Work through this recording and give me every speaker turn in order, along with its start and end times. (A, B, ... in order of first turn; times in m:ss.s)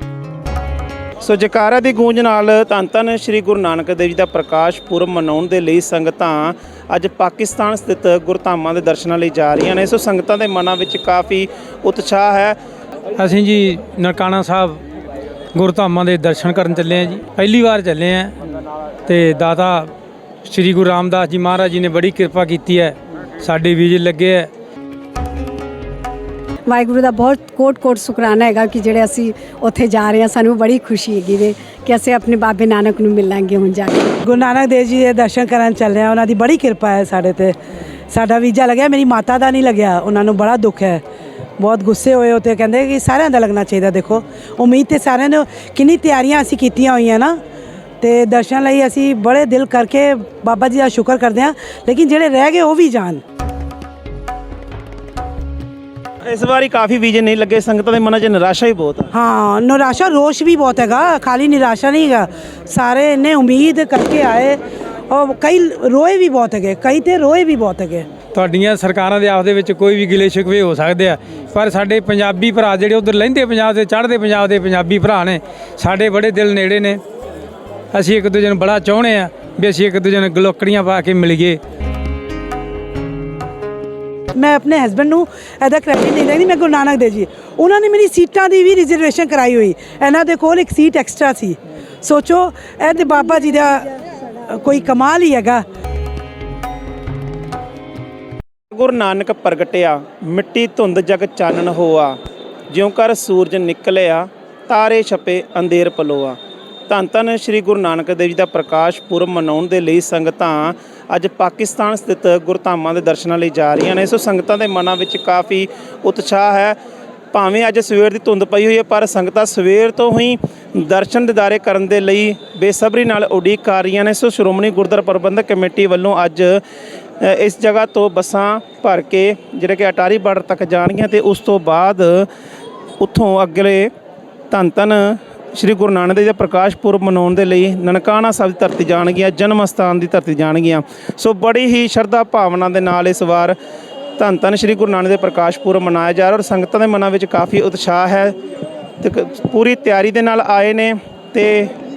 0:01.2-0:12.6 A
0:13.2-0:14.8 B
0:15.6-0:18.3 B
0:19.0-0:19.9 B
0:20.5-0:24.5 B
0:26.7-0:34.2 C
0:34.2-0:37.6 D
0:38.1-0:41.0 D
0:41.6-0:47.4 D
0:48.0-0:53.2 D
0:56.2-0:59.1 A
0:59.1-1:08.1 D
1:08.3-1:17.0 B
1:17.9-1:21.6 B
1:24.3-1:35.6 D
1:38.7-1:42.2 A
1:42.7-1:46.4 A
1:46.9-1:56.8 A
1:57.3-2:06.6 A
2:07.2-2:12.3 A
2:13.0-2:13.9 A
2:14.5-2:23.6 A
2:24.2-2:28.3 A
2:29.0-2:31.7 A